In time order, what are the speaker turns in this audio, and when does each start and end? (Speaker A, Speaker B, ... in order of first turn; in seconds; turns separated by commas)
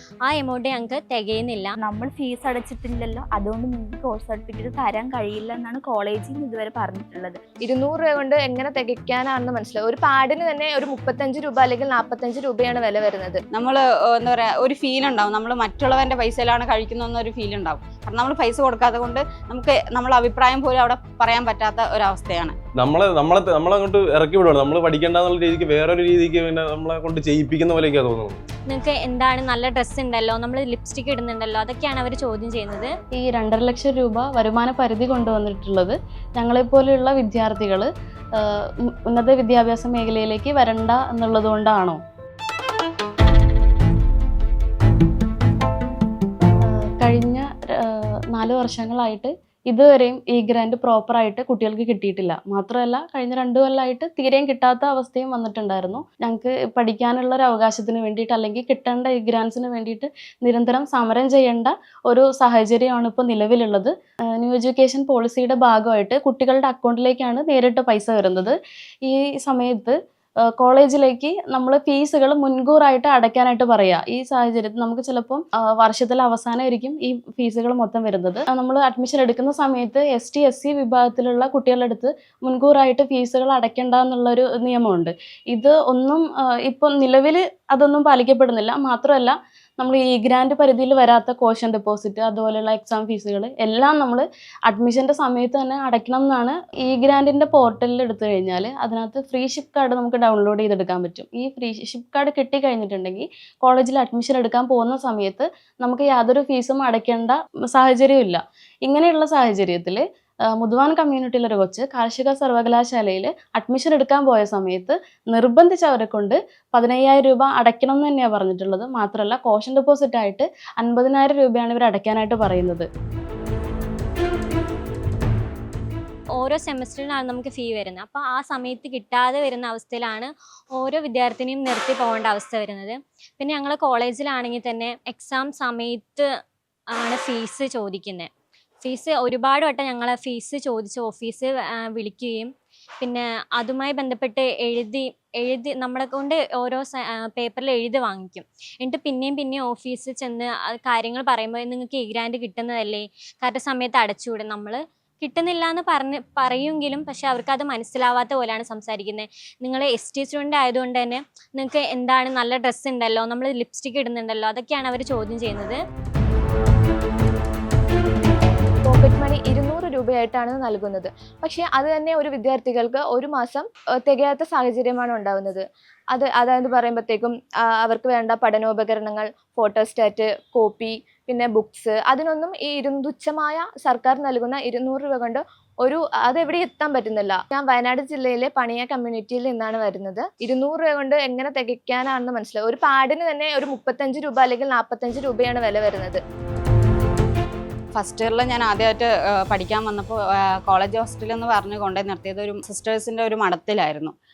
Speaker A: 0.2-1.8, Speaker B: 1.8-7.4, Speaker C: 7.6-13.4, Speaker D: 13.5-22.6, Speaker E: 22.8-28.4, Speaker A: 28.7-32.9, Speaker F: 33.2-42.0, Speaker F: 46.7-69.9, Speaker F: 70.6-110.0, Speaker F: 110.6-122.9, Speaker A: 126.4-136.3, Speaker A: 136.9-138.3, Speaker A: 138.8-142.5, Speaker A: 143.0-165.8, Speaker C: 168.8-196.2, Speaker D: 197.9-204.1